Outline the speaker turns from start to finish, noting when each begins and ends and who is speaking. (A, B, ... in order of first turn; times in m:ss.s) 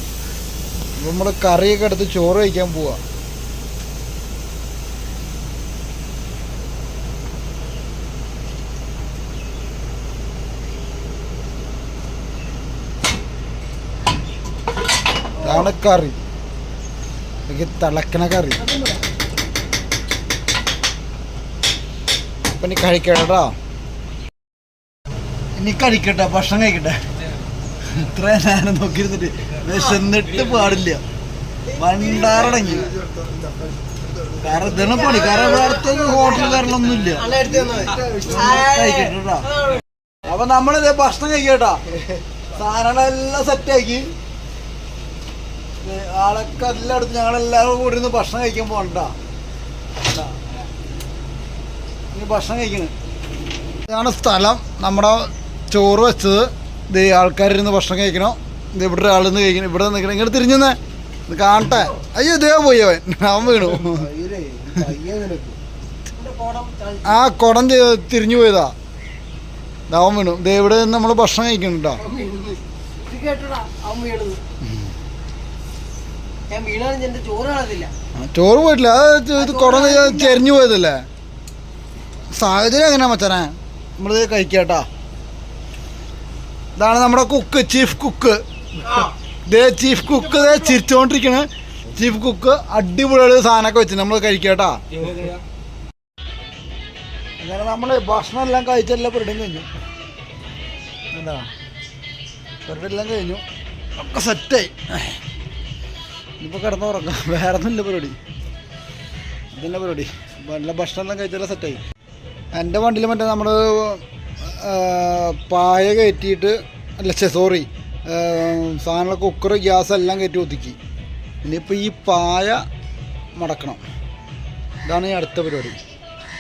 0:01.0-0:03.0 A
0:15.4-0:16.2 A
0:17.5-0:18.6 A
0:22.6-0:23.6 A
0:25.6-0:27.0 A
0:27.9-0:31.0 A
0:31.8-0:32.9 A
0:34.4-0:37.5 A
0:35.2-0:36.3 B
0:37.1-0:39.8 B
0:38.2-0:39.5 A
0:40.3-0:41.8 A
0:42.6-0:44.1 A
0:45.8-0:49.1 A
0:52.1-0:52.9 A
0:53.9-1:04.1 A
1:03.7-1:05.6 B
1:06.2-1:07.2 B
1:07.0-1:08.7 A
1:09.9-1:12.0 A
1:12.0-1:14.4 B
1:16.5-1:17.9 B
1:18.2-1:21.0 A
1:19.4-1:20.4 B
1:22.3-1:24.9 A
1:26.8-1:35.3 A
1:37.4-1:39.7 A
1:41.1-1:41.5 A
1:42.7-1:43.4 A
1:44.0-1:45.2 A
1:46.4-1:48.2 A
1:49.5-1:51.8 A
1:52.6-2:00.8 A
2:01.4-2:02.6 A
2:03.4-2:03.8 A
2:04.8-2:05.8 A